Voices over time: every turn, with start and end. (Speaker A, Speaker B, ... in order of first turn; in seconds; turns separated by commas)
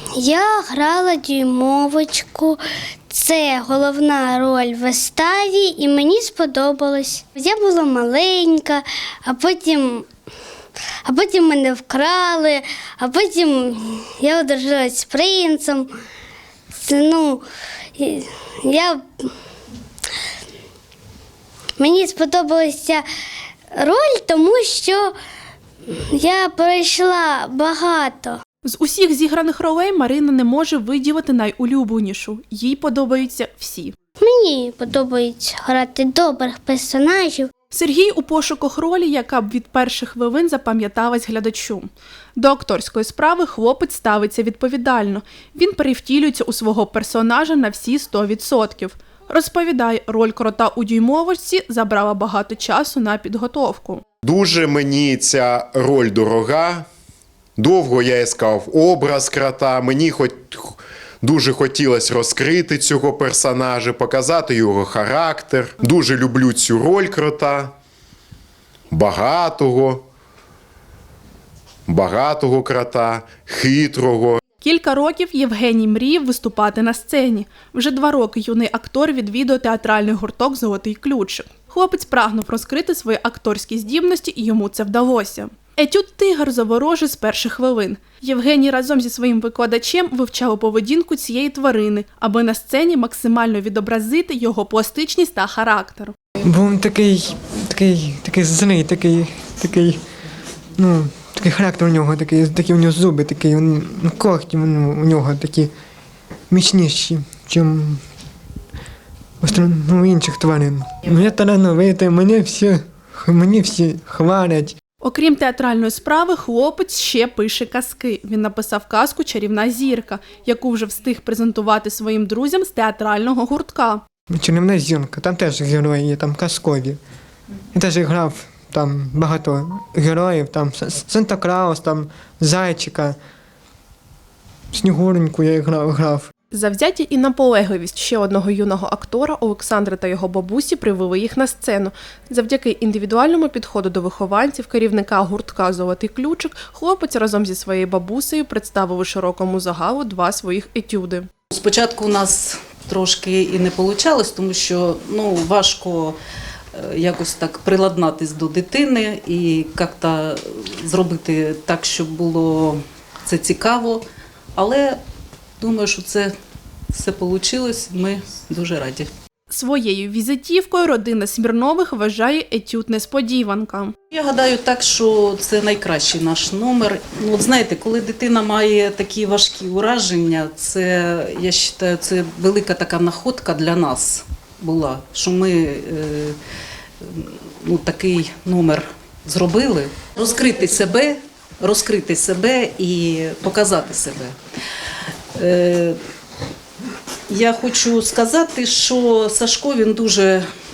Speaker A: 0.2-10.0, Speaker A: 11.1-15.9, Speaker A: 16.8-17.4, Speaker A: 18.0-19.0, Speaker A: 21.8-23.0, Speaker A: 23.8-25.1, Speaker A: 26.1-28.4, Speaker B: 28.6-34.0, Speaker A: 34.2-37.5, Speaker B: 37.7-54.0, Speaker C: 54.2-56.9, Speaker C: 57.6-67.7, Speaker C: 68.9-70.0, Speaker C: 71.9-74.4, Speaker B: 74.6-96.1, Speaker D: 96.4-100.0, Speaker D: 100.8-105.7, Speaker D: 106.5-108.0, Speaker D: 109.4-114.8, Speaker B: 115.0-124.0, Speaker D: 124.3-127.0, Speaker D: 127.7-133.2, Speaker D: 134.7-136.3, Speaker B: 136.5-151.3, Speaker E: 151.5-156.2, Speaker E: 156.8-165.0, Speaker E: 165.6-166.3, Speaker E: 166.9-169.1, Speaker B: 169.5-173.9, Speaker E: 174.1-186.3, Speaker E: 187.0-194.3, Speaker E: 195.3-196.0, Speaker E: 197.3-200.4